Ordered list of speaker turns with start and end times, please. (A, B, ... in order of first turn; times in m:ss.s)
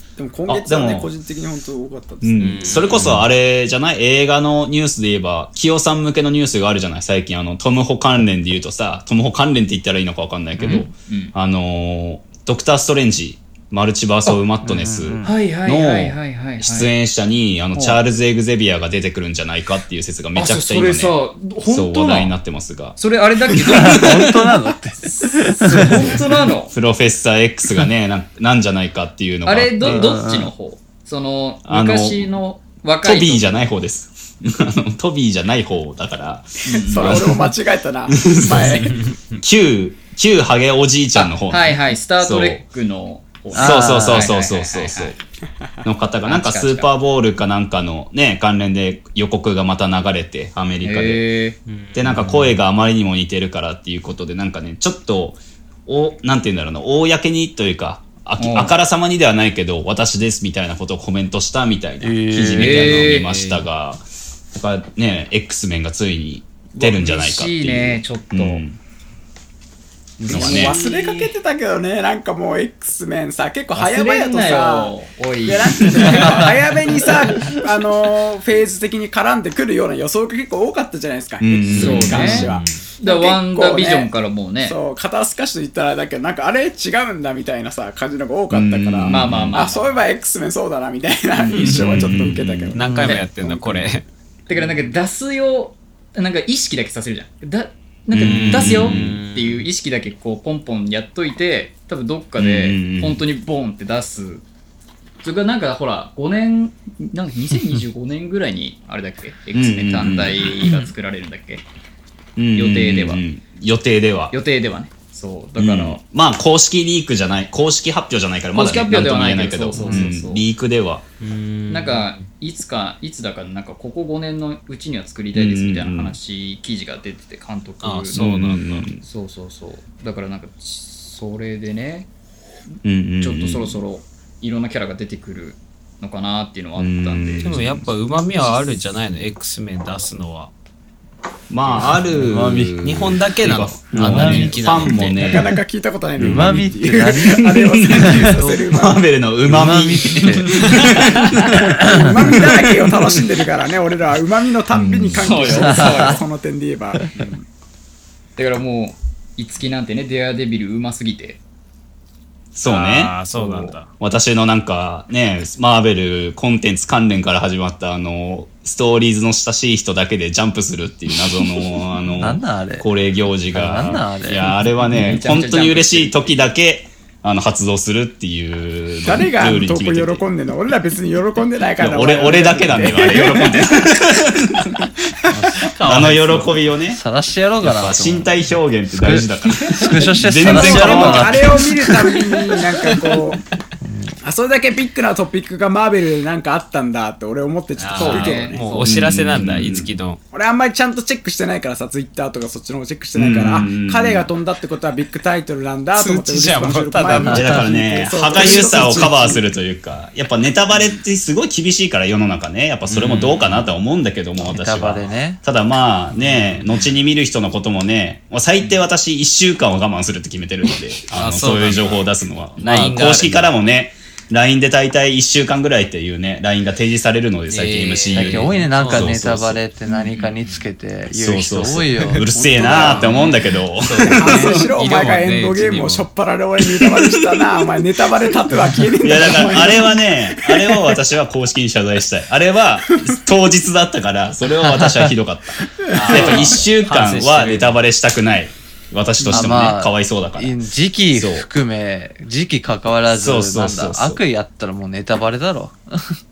0:00.2-0:02.9 A
0:00.4-0:01.1 B
0:02.2-0:24.1 B
0:02.4-0:03.3 C
0:10.6-0:10.9 C
0:10.6-0:11.3 D
0:14.6-0:15.4 E
0:15.2-0:16.9 D
0:17.7-0:18.0 D
0:20.3-0:22.3 D
0:23.0-0:24.5 D
0:23.8-0:25.9 E
0:25.2-0:26.7 D
0:25.8-0:30.0 B
0:29.4-0:33.5 D
0:29.8-0:30.5 E
0:31.6-0:32.3 B
0:33.0-0:37.5 B
0:36.6-0:37.3 D
0:36.6-0:39.0 A
0:38.1-0:42.6 B
0:38.8-0:39.4 C
0:41.1-0:45.2 D
0:43.5-0:44.3 E
0:43.5-0:45.1 B
0:45.8-0:51.2 B
0:46.2-0:46.9 D
0:50.8-0:51.6 D
0:51.7-0:52.6 C
0:51.9-1:08.8 B
0:58.4-0:58.7 D
1:02.0-1:03.1 E
1:02.6-1:03.3 D
1:02.8-1:03.6 C
1:06.7-1:08.6 D
1:10.2-1:10.8 B
1:10.2-1:14.9 A
1:10.2-1:11.3 D
1:13.7-1:16.5 D
1:15.4-1:24.1 A
1:21.4-1:22.5 B
1:21.8-1:22.5 D
1:21.8-1:22.8 C
1:23.0-1:24.8 D
1:24.6-1:32.8 A
1:28.5-1:29.6 B
1:29.1-1:29.8 D
1:29.2-1:29.6 C
1:31.5-1:34.0 C
1:31.5-1:32.8 B
1:32.8-1:33.8 E
1:34.5-1:44.4 D
1:38.1-1:39.2 B
1:38.2-1:39.6 C
1:42.4-1:43.2 B
1:45.2-1:51.6 D
1:49.5-1:50.4 B
1:50.6-1:50.9 C
1:52.4-1:54.3 B
1:52.5-1:53.2 D
1:54.3-1:56.0 D
1:55.6-2:01.0 B
1:58.5-2:00.4 D
1:59.8-2:00.1 C
2:01.2-2:02.2 C
2:01.7-2:08.2 D
2:05.3-2:06.2 B
2:07.8-2:08.9 C
2:08.1-2:09.0 B
2:08.9-2:12.1 D
2:12.8-2:13.8 B
2:13.2-2:17.5 D
2:16.8-2:17.9 B
2:17.4-2:20.5 C
2:21.5-2:25.5 B
2:22.1-2:22.8 E
2:22.8-2:25.5 C
2:24.0-2:24.6 E
2:25.0-2:29.0 A
2:26.2-2:26.6 B
2:26.2-2:28.2 E
2:27.5-2:31.3 B
2:29.4-2:30.5 E
2:30.7-2:31.0 C
2:31.2-2:37.4 A
2:31.5-2:32.5 E
2:34.7-2:35.3 C
2:35.2-2:36.2 D
2:35.6-2:36.2 E
2:38.4-2:41.4 D
2:42.5-3:00.3 B
2:42.6-2:43.9 C
2:52.2-2:52.9 E
2:53.5-2:54.5 E
2:55.0-2:56.3 D
2:59.0-3:03.8 A
3:01.8-3:04.9 B
3:05.3-3:05.6 E
3:05.7-3:06.6 C
3:05.8-3:07.0 B
3:06.9-3:08.4 E
3:07.6-3:11.6 B
3:08.9-3:12.1 E
3:10.4-3:13.4 A
3:13.8-3:14.2 E
3:14.2-3:18.6 A
3:17.8-3:20.2 C
3:17.9-3:19.0 D
3:18.8-3:19.9 B
3:20.3-3:29.4 A
3:23.1-3:24.3 B
3:25.9-3:27.7 C
3:27.2-3:27.6 E
3:27.3-3:49.6 B
3:28.4-3:29.0 C
3:32.9-3:33.7 C
3:34.4-3:35.4 E
3:36.2-3:36.9 C
3:41.0-3:43.5 C
3:47.5-3:49.2 C
3:48.1-3:52.2 E
3:49.9-3:50.6 C
3:51.1-3:54.7 B
3:52.3-3:53.3 A
3:52.6-3:56.1 C
3:54.1-4:00.9 A
3:59.0-4:10.6 B
4:04.7-4:04.9 E
4:05.9-4:07.8 C
4:06.0-4:06.6 A
4:09.3-4:16.1 E
4:11.1-4:11.5 B
4:13.1-4:14.2 B